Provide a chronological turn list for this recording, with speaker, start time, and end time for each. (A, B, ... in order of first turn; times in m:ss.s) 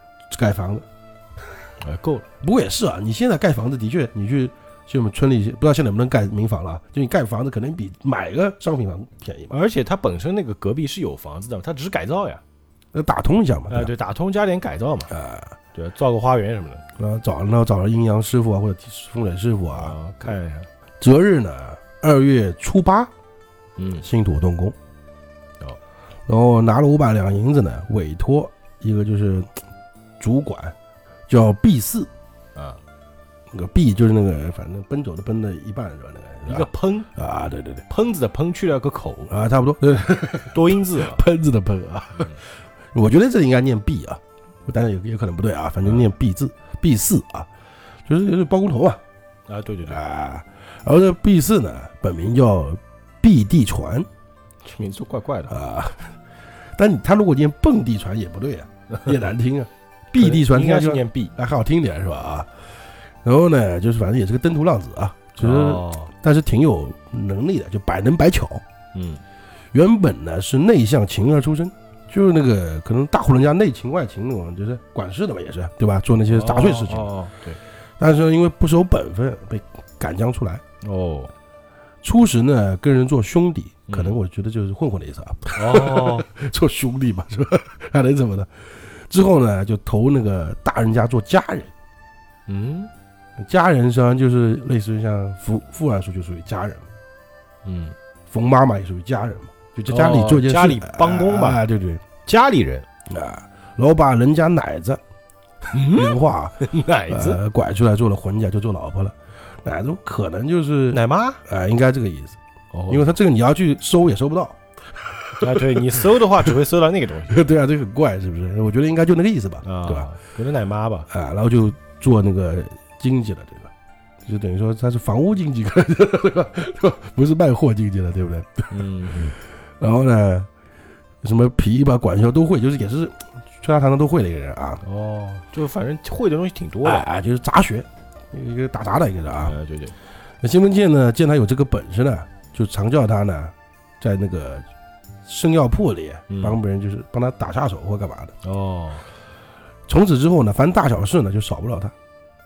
0:00.3-0:00.9 A
0:01.8-0:02.3 B
0:02.4-0:09.6 A
0:09.5-0:12.4 B
0:12.9-0:13.9 A
0:13.7-0:15.1 B
0:15.1-0:15.6 A
0:15.7-0:16.8 B
0:17.0-0:20.0 A
0:19.7-0:20.7 B
0:21.0-0:23.1 A
0:23.8-0:24.1 B
0:24.0-0:24.8 A
0:26.3-0:29.5 A
0:30.2-0:30.8 A
0:31.3-0:32.1 A
0:32.6-0:32.8 B
0:33.5-0:37.8 A
0:36.5-0:37.1 B
0:37.9-0:39.3 B
0:39.3-0:42.4 A
0:40.5-0:41.2 B
0:42.9-0:47.5 A
0:48.1-0:49.0 A
0:49.5-0:50.0 B
0:49.9-0:54.1 A
0:54.6-0:55.6 B
0:55.5-0:56.2 A
0:56.8-1:02.5 A
1:00.2-1:01.3 B
1:03.2-1:08.6 A
1:05.4-1:06.1 B
1:08.9-1:09.2 B
1:09.7-1:17.1 A
1:16.3-1:17.6 B
1:18.0-1:20.6 A
1:20.8-1:21.3 B
1:22.0-1:31.7 A
1:23.9-1:24.2 B
1:25.6-1:26.3 B
1:32.5-1:32.9 B
1:33.4-1:36.9 A
1:37.6-1:38.0 B
1:38.3-1:42.0 A
1:39.9-1:41.6 B
1:42.2-1:42.9 B
1:43.1-1:45.0 A
1:45.7-1:52.4 A
1:45.7-1:47.4 B
1:50.9-1:51.4 B
1:52.7-1:53.1 B
1:52.9-1:56.6 A
1:55.4-1:57.4 B
1:57.3-2:00.1 A
1:59.6-2:01.1 B
2:01.1-2:03.7 A
2:04.2-2:08.9 A
2:08.7-2:09.4 B
2:09.4-2:10.5 A
2:11.2-2:14.8 A
2:14.8-2:17.1 B
2:16.8-2:19.6 A
2:19.4-2:20.0 B
2:20.4-2:24.6 A
2:25.3-2:28.4 A
2:26.3-2:26.6 B
2:28.4-2:29.1 B
2:29.9-2:31.9 A